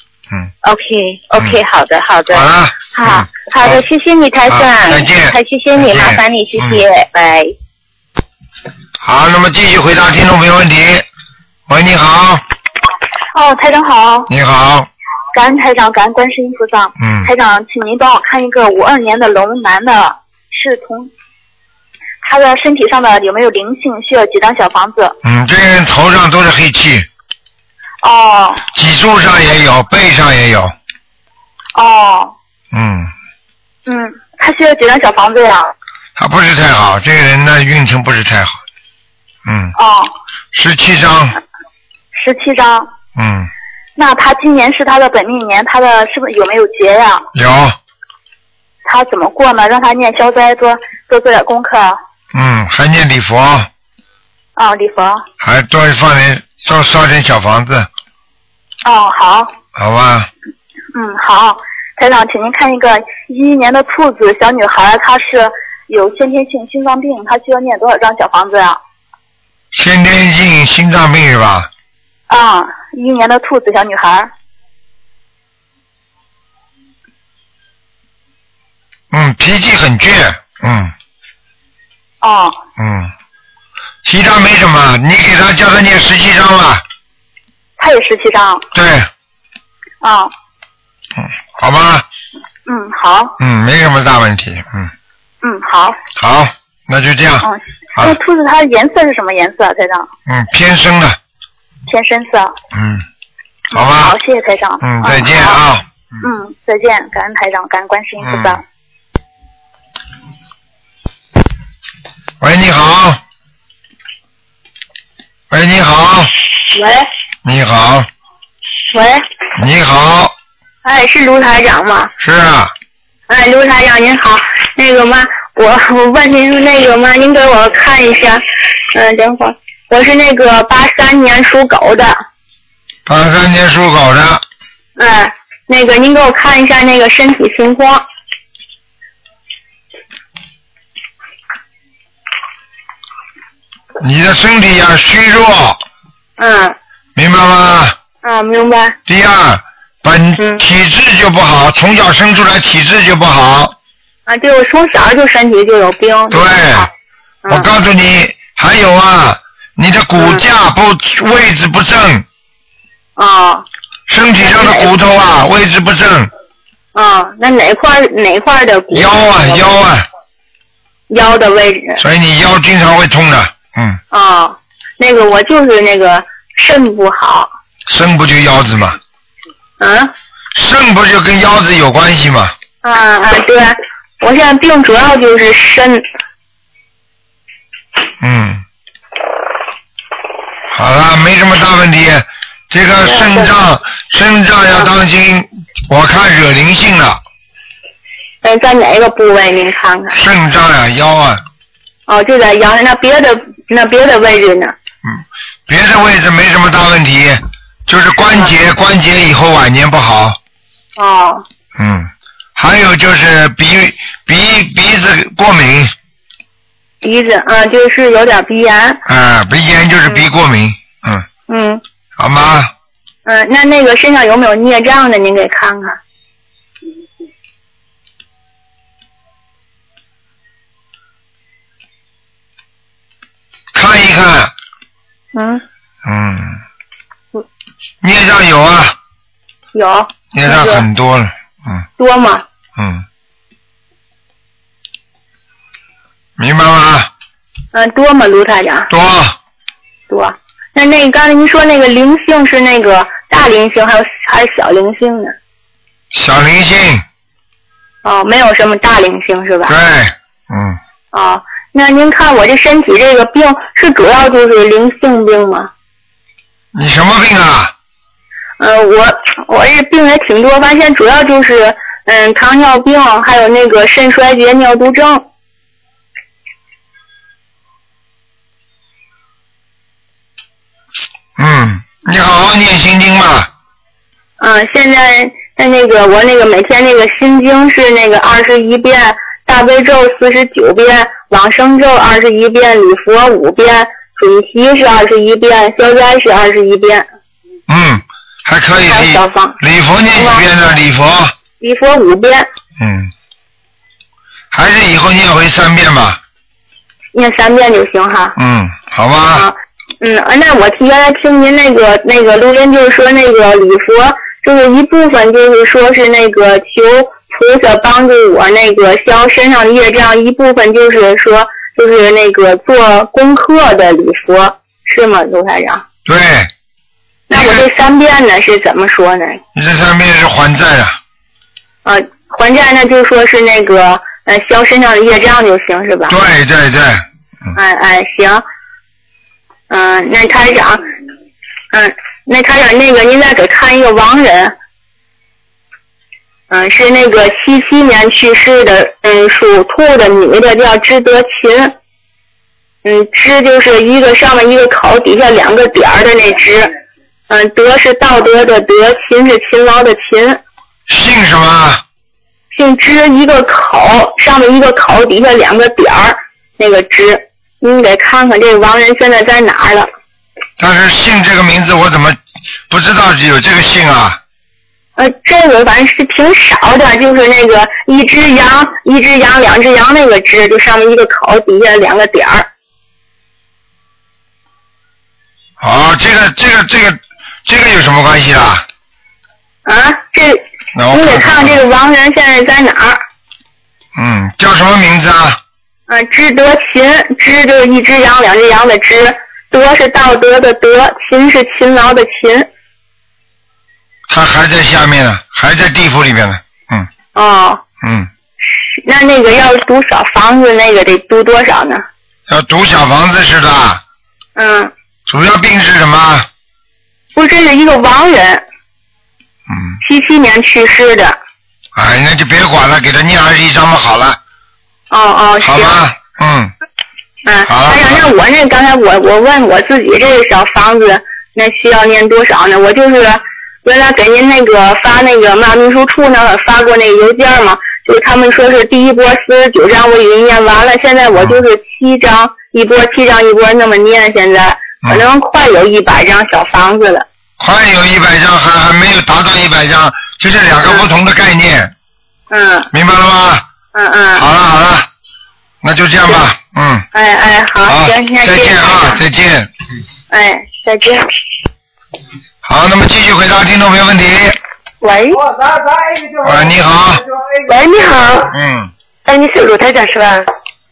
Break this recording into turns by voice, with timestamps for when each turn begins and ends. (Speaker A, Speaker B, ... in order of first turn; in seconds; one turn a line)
Speaker A: 0.6-7.5
Speaker B: 2.3-3.8
Speaker B: 4.5-6.8
Speaker B: 9.0-11.1
Speaker B: 11.7-12.4
Speaker C: 13.3-14.3
Speaker B: 14.3-14.9
Speaker C: 15.3-21.1
Speaker B: 17.0-17.3
Speaker C: 22.2-25.1
Speaker B: 25.2-27.1
Speaker C: 28.0-28.6
Speaker B: 28.7-30.7
Speaker C: 31.7-32.3
Speaker B: 32.7-33.1
Speaker C: 33.9-35.7
Speaker B: 36.1-38.6
Speaker B: 39.5-39.7
Speaker C: 39.8-40.1
Speaker B: 40.5-41.4
Speaker C: 42.1-42.9
Speaker B: 43.1-43.5
Speaker C: 44.0-47.2
Speaker B: 47.3-47.8
Speaker C: 48.8-52.0
Speaker B: 52.3-53.7
Speaker C: 54.5-55.2
Speaker B: 55.4-57.9
Speaker C: 58.8-59.5
Speaker B: 59.8-60.3
Speaker C: 60.9-68.8
Speaker B: 69.7-71.7
Speaker C: 72.3-74.3
Speaker B: 79.1-80.9
Speaker C: 82.2-82.6
Speaker B: 82.8-83.1
Speaker B: 84.0-86.8
Speaker C: 87.8-88.6
Speaker B: 88.7-89.1
Speaker C: 90.0-90.3
Speaker B: 91.2-92.0
Speaker C: 92.7-93.3
Speaker B: 93.4-94.9
Speaker C: 95.4-96.0
Speaker B: 96.2-98.2
Speaker C: 97.4-100.1
Speaker B: 100.3-101.2
Speaker C: 101.9-102.5
Speaker B: 102.7-103.0
Speaker B: 103.7-104.2
Speaker C: 103.7-105.6
Speaker B: 104.8-105.8
Speaker C: 106.2-108.6
Speaker B: 108.2-108.6
Speaker B: 112.4-113.2
Speaker B: 115.5-116.3
Speaker D: 116.7-117.1
Speaker B: 117.4-118.1
Speaker D: 118.9-119.2
Speaker B: 119.6-120.3
Speaker D: 120.8-122.1
Speaker B: 122.2-122.7
Speaker D: 123.3-132.2
Speaker B: 133.1-134.4
Speaker D: 135.0-138.0
Speaker B: 144.0-145.8
Speaker D: 146.4-146.7
Speaker B: 147.2-147.9
Speaker D: 148.2-148.9
Speaker B: 149.1-153.7
Speaker D: 154.3-156.9
Speaker B: 156.3-156.9
Speaker D: 157.4-157.7
Speaker B: 157.5-162.2
Speaker D: 160.2-160.4
Speaker D: 163.2-163.6
Speaker B: 164.1-166.3
Speaker D: 164.4-164.9
Speaker D: 166.9-169.7
Speaker B: 168.9-170.1
Speaker D: 171.1-172.0
Speaker B: 172.0-174.0
Speaker D: 174.1-177.5
Speaker B: 177.9-179.0
Speaker D: 179.8-180.1
Speaker B: 180.5-182.5
Speaker D: 182.8-186.0
Speaker B: 188.2-188.6
Speaker B: 190.7-197.2
Speaker D: 193.0-193.4
Speaker D: 198.4-200.2
Speaker B: 200.1-201.4
Speaker D: 202.1-204.7
Speaker B: 205.0-210.4
Speaker D: 211.0-211.4
Speaker B: 211.8-215.9
Speaker D: 217.0-219.0
Speaker B: 219.1-221.3
Speaker D: 221.5-221.8
Speaker B: 222.2-222.7
Speaker D: 223.2-226.0
Speaker B: 233.7-234.5
Speaker D: 235.3-235.6
Speaker B: 236.0-236.6
Speaker B: 238.0-238.9
Speaker D: 239.7-240.8
Speaker B: 240.3-241.8
Speaker D: 242.0-242.4
Speaker B: 242.8-243.0
Speaker B: 246.4-247.1
Speaker D: 247.7-248.9
Speaker B: 248.9-249.3
Speaker D: 250.1-255.3
Speaker B: 256.1-257.0
Speaker D: 258.0-259.7
Speaker B: 259.7-260.8
Speaker D: 261.1-265.7
Speaker B: 266.7-267.7
Speaker D: 268.6-275.2
Speaker B: 281.4-283.5
Speaker D: 284.4-297.1
Speaker B: 297.7-301.3
Speaker D: 298.8-299.6
Speaker D: 300.1-300.4
Speaker D: 301.6-302.5
Speaker B: 302.8-303.1
Speaker B: 304.5-306.2
Speaker D: 307.1-308.3
Speaker B: 308.4-309.4
Speaker D: 309.3-325.8
Speaker B: 326.1-326.5
Speaker D: 327.3-329.4
Speaker B: 327.3-327.7
Speaker B: 329.5-331.0
Speaker D: 331.8-336.1
Speaker B: 336.1-337.0
Speaker D: 337.5-338.4
Speaker D: 339.7-340.8
Speaker D: 341.7-344.5
Speaker D: 346.5-351.7
Speaker D: 352.8-356.7
Speaker D: 357.3-360.4
Speaker B: 360.9-361.8
Speaker D: 362.5-369.9
Speaker B: 370.6-372.2
Speaker B: 372.7-374.2
Speaker D: 375.0-382.5
Speaker B: 385.6-388.6
Speaker D: 389.6-393.0
Speaker B: 390.7-391.6
Speaker B: 393.9-395.4
Speaker D: 395.9-402.5
Speaker B: 404.1-406.9
Speaker D: 407.1-407.6
Speaker B: 407.8-408.1
Speaker D: 408.6-411.8
Speaker B: 412.3-413.8
Speaker D: 414.4-414.7
Speaker B: 415.1-416.3
Speaker D: 417.1-418.4
Speaker B: 419.5-419.8
Speaker D: 419.8-421.2
Speaker B: 421.7-424.2
Speaker D: 424.9-425.8
Speaker B: 425.4-426.5
Speaker D: 427.2-447.1
Speaker B: 427.4-428.1
Speaker B: 441.1-441.4
Speaker B: 447.4-451.7
Speaker D: 452.3-452.7
Speaker B: 452.7-453.4
Speaker D: 453.7-454.2
Speaker B: 454.1-454.9
Speaker B: 455.6-456.9
Speaker D: 456.9-459.0
Speaker B: 457.6-459.5
Speaker D: 460.1-461.1
Speaker B: 462.4-464.4
Speaker E: 464.8-465.2
Speaker B: 466.2-467.0
Speaker E: 467.4-468.3
Speaker B: 468.3-468.7
Speaker E: 469.1-470.2